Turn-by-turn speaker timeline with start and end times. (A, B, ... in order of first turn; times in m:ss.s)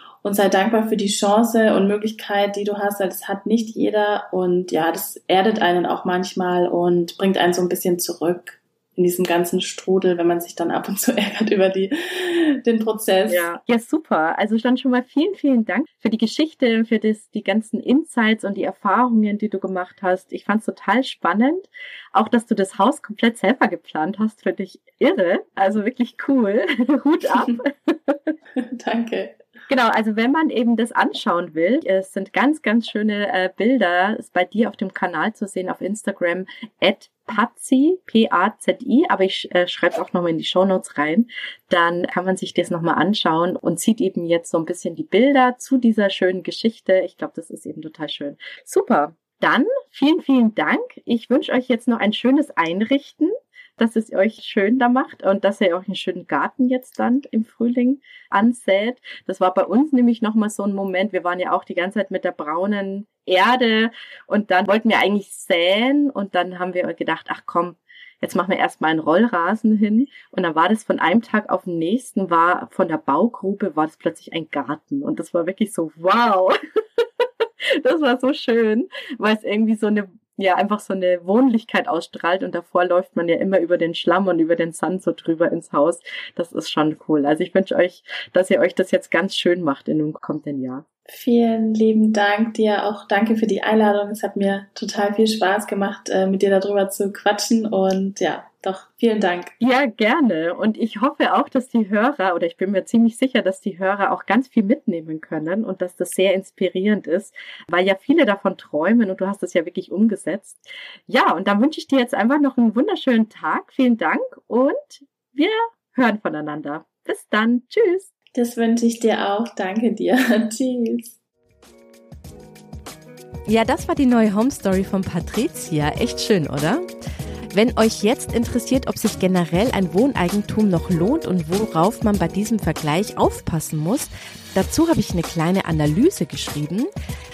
0:00.2-0:13.5 A
0:13.3-0:28.3 B
0:28.6-0:29.4 A
0:29.7-1:30.8 B
1:31.1-1:39.5 A
1:39.6-1:58.1 B
1:58.3-2:01.1 A
2:03.5-2:06.8 C
2:07.5-2:16.9 C